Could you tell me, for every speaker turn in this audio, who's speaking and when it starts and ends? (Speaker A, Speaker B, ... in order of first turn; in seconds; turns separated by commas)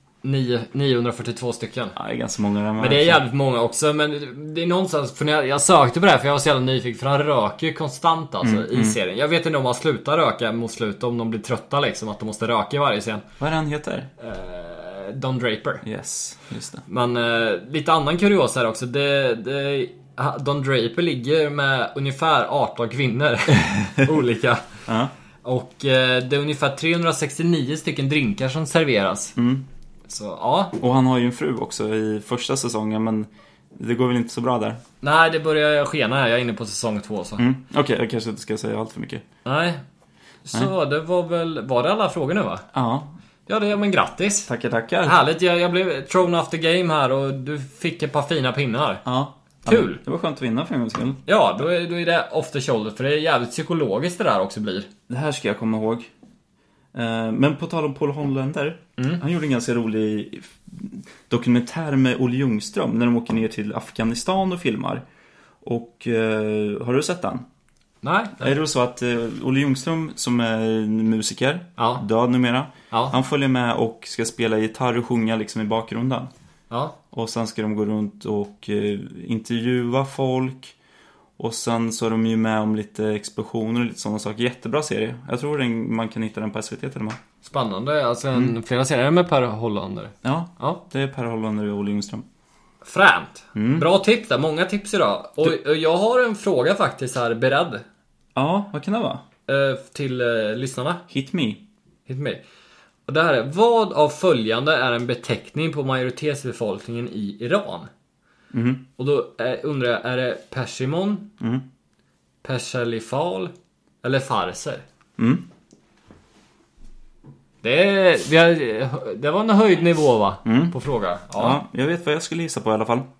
Speaker A: 0.2-2.0, Speaker B: 2.0-3.2, Speaker A: 2.8-13.2, Speaker B: 8.4-9.0, Speaker B: 13.4-14.1, Speaker A: 14.2-15.8, Speaker B: 15.8-16.9, Speaker A: 16.9-24.6, Speaker B: 24.9-25.1, Speaker A: 25.4-29.4, Speaker B: 29.4-29.7, Speaker A: 30.1-30.8, Speaker B: 30.8-34.8, Speaker A: 35.0-37.4, Speaker B: 37.4-39.2, Speaker A: 39.5-39.8, Speaker A: 40.5-42.7, Speaker B: 42.7-43.1, Speaker A: 43.5-44.5, Speaker B: 44.5-45.2, Speaker A: 45.0-49.0, Speaker B: 49.0-51.2, Speaker A: 49.6-50.0, Speaker A: 51.3-54.9, Speaker B: 55.1-56.1, Speaker B: 56.9-65.0, Speaker A: 59.0-59.2, Speaker B: 65.6-67.5, Speaker A: 68.0-68.5, Speaker B: 68.4-76.3, Speaker A: 71.8-72.0, Speaker A: 76.7-77.0, Speaker B: 77.1-80.8, Speaker B: 81.4-87.2, Speaker A: 87.4-90.8, Speaker B: 90.2-92.2, Speaker A: 92.8-97.8, Speaker B: 93.5-93.9, Speaker B: 98.4-99.2, Speaker A: 99.5-101.0, Speaker B: 101.1-101.6, Speaker A: 102.1-102.4, Speaker A: 103.1-107.9, Speaker B: 108.5-108.8, Speaker A: 109.0-111.3, Speaker B: 111.4-111.7, Speaker A: 112.4-114.8, Speaker B: 115.2-115.5, Speaker A: 117.6-121.6, Speaker B: 120.5-120.8, Speaker B: 121.4-123.1